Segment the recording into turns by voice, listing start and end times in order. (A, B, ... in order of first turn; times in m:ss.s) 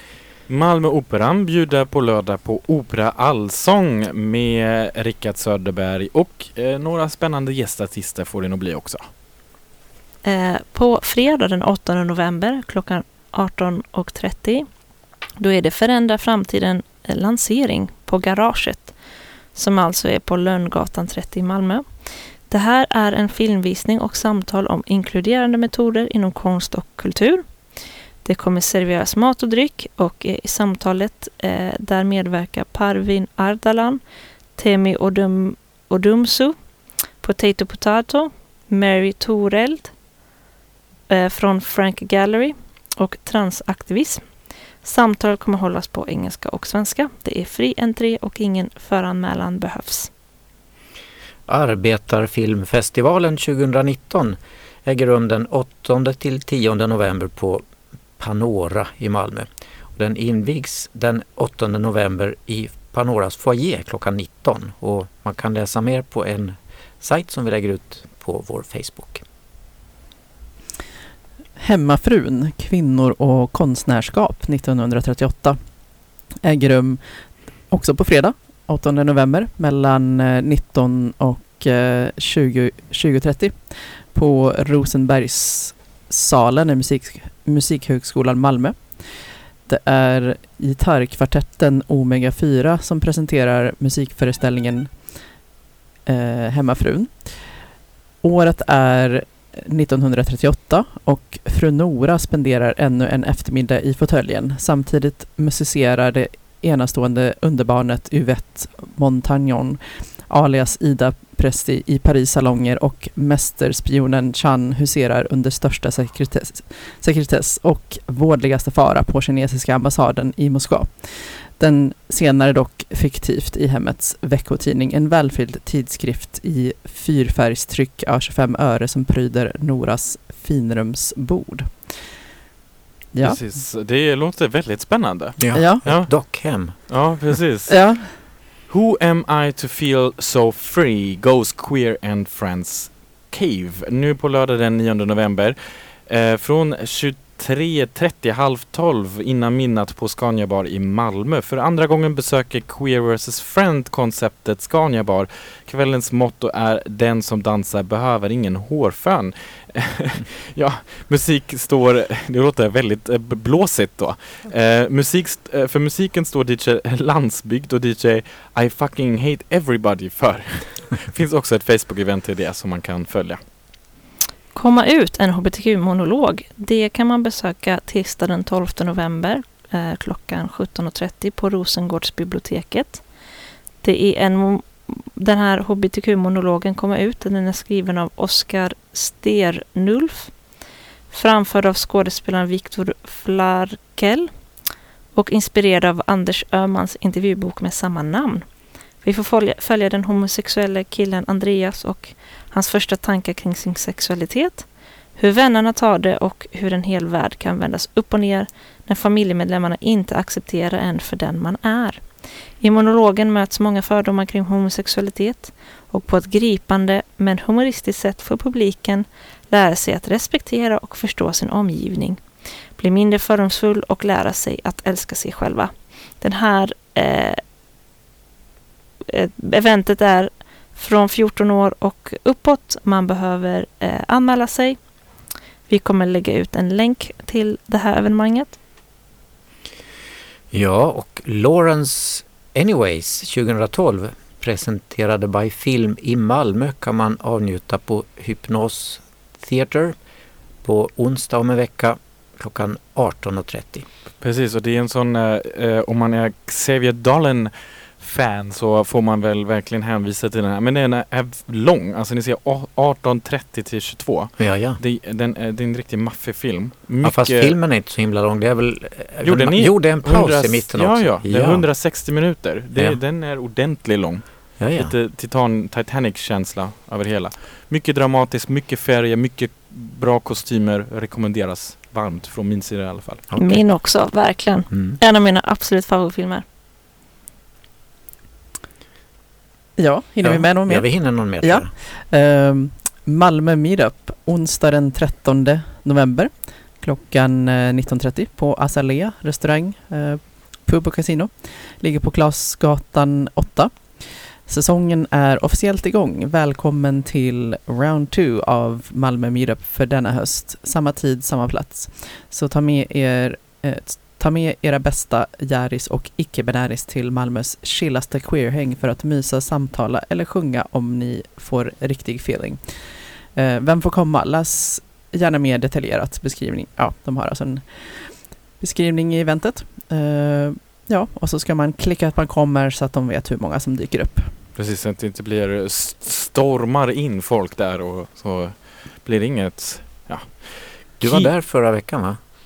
0:00.5-0:09.0 A
0:10.2-0:14.7 B
0:15.4-0:18.9 B
0:19.6-0:21.9 B
0:22.5-0:27.4 B
0:28.2-0:34.0 B
0:34.6-0:36.6 B
0:37.2-0:39.9 B
0:41.1-0:44.2 B
0:44.8-0:50.1 B
0:51.5-0:57.6 C
0:58.2-1:09.2 C
1:11.6-1:15.6 D
1:16.4-1:17.0 D
1:17.7-1:23.6 D
1:24.1-1:29.0 D
1:29.7-1:35.0 D
1:36.1-1:37.3 D
1:38.2-2:11.7 D
2:13.1-2:13.4 D
2:13.2-2:53.4 A
2:15.4-2:16.8 C
2:15.5-2:15.8 D
2:17.7-2:18.1 D
2:54.5-3:03.0 B
3:03.8-3:10.3 B
3:11.1-3:14.3 B
3:15.2-3:18.4 B
3:19.0-3:24.7 B
3:25.2-3:32.0 B
3:32.6-3:42.2 B
3:42.8-3:47.4 B
3:49.1-3:54.8 B
3:55.7-3:58.6 B
4:00.5-4:10.0 C
4:10.6-4:13.9 C
4:14.2-4:27.5 A
4:24.4-4:24.8 C
4:27.0-4:31.7 C
4:29.2-4:43.2 A
4:34.6-4:34.9 C
4:43.3-4:43.6 C
4:43.4-4:46.4 B
4:44.7-4:45.0 C
4:49.8-5:22.6 D
4:50.2-4:51.7 C
5:23.4-5:34.3 D
5:34.6-5:41.3 A
5:41.0-5:42.2 C